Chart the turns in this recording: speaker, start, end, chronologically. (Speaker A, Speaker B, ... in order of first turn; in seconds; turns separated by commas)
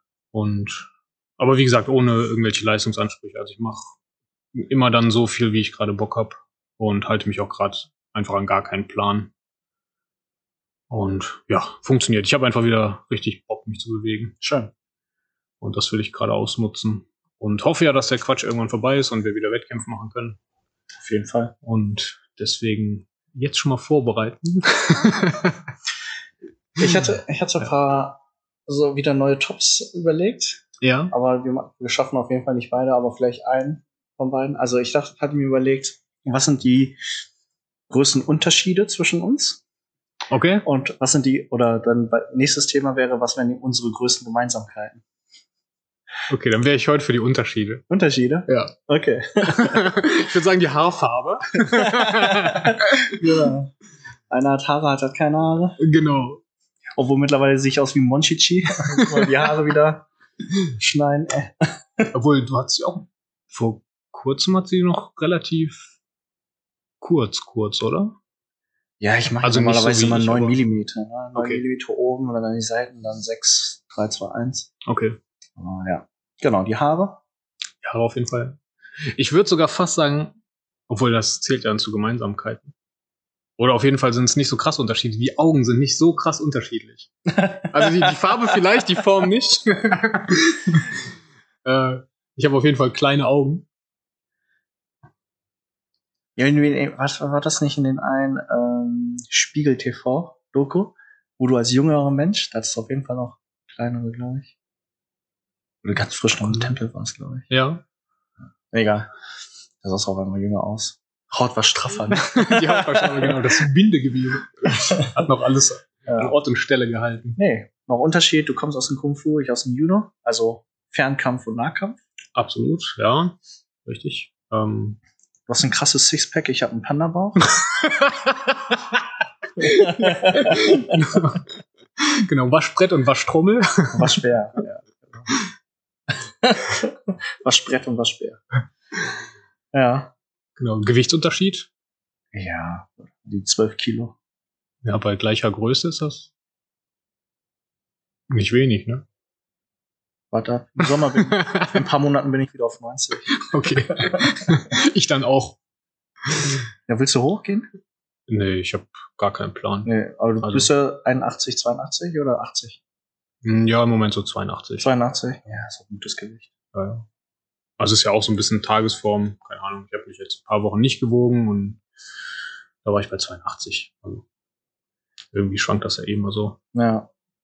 Speaker A: 0.3-3.9, Speaker A: 4.5-9.3, Speaker A: 10.9-14.3, Speaker B: 14.4-14.7, Speaker A: 15.6-20.4, Speaker B: 21.0-21.5, Speaker A: 21.6-25.6, Speaker B: 26.8-37.0, Speaker A: 30.8-31.1, Speaker B: 37.9-39.6, Speaker A: 40.3-40.6, Speaker B: 40.6-45.0, Speaker A: 46.3-47.8, Speaker B: 47.9-50.0, Speaker A: 48.5-48.7, Speaker A: 49.5-53.5, Speaker B: 51.7-53.7, Speaker B: 54.3-55.8, Speaker A: 55.8-56.4, Speaker B: 57.0-60.1, Speaker A: 59.1-59.4, Speaker B: 60.8-62.1, Speaker A: 62.1-65.9, Speaker A: 67.0-68.2, Speaker B: 69.0-74.7, Speaker A: 69.4-70.6, Speaker A: 71.3-71.6, Speaker A: 74.8-75.2, Speaker B: 75.6-77.2, Speaker A: 77.8-78.6, Speaker A: 79.1-80.3, Speaker A: 80.9-82.7, Speaker A: 83.6-90.9, Speaker B: 87.4-87.8, Speaker A: 91.6-93.7, Speaker B: 96.4-104.5, Speaker B: 105.8-107.5, Speaker A: 107.5-107.8, Speaker B: 108.7-109.1, Speaker B: 109.8-113.3, Speaker A: 112.2-117.4, Speaker B: 116.1-116.3, Speaker B: 117.4-122.0, Speaker A: 122.3-125.0, Speaker B: 125.5-127.5, Speaker A: 127.7-129.0, Speaker B: 129.6-131.0, Speaker A: 129.6-134.2, Speaker B: 133.9-135.3, Speaker B: 136.4-136.9, Speaker B: 137.4-138.4, Speaker B: 139.7-140.1, Speaker A: 140.6-141.7, Speaker B: 142.3-144.2, Speaker A: 144.8-146.3, Speaker A: 148.3-149.0, Speaker B: 150.3-154.3, Speaker A: 151.2-151.8, Speaker A: 153.4-155.6, Speaker A: 156.3-156.6, Speaker B: 156.9-157.7, Speaker A: 158.3-159.9, Speaker B: 159.8-162.8, Speaker A: 160.4-160.7, Speaker A: 163.4-164.9, Speaker B: 164.8-166.5, Speaker A: 166.7-167.1, Speaker A: 167.8-171.8, Speaker A: 172.8-174.2, Speaker A: 175.3-176.6, Speaker B: 176.7-177.1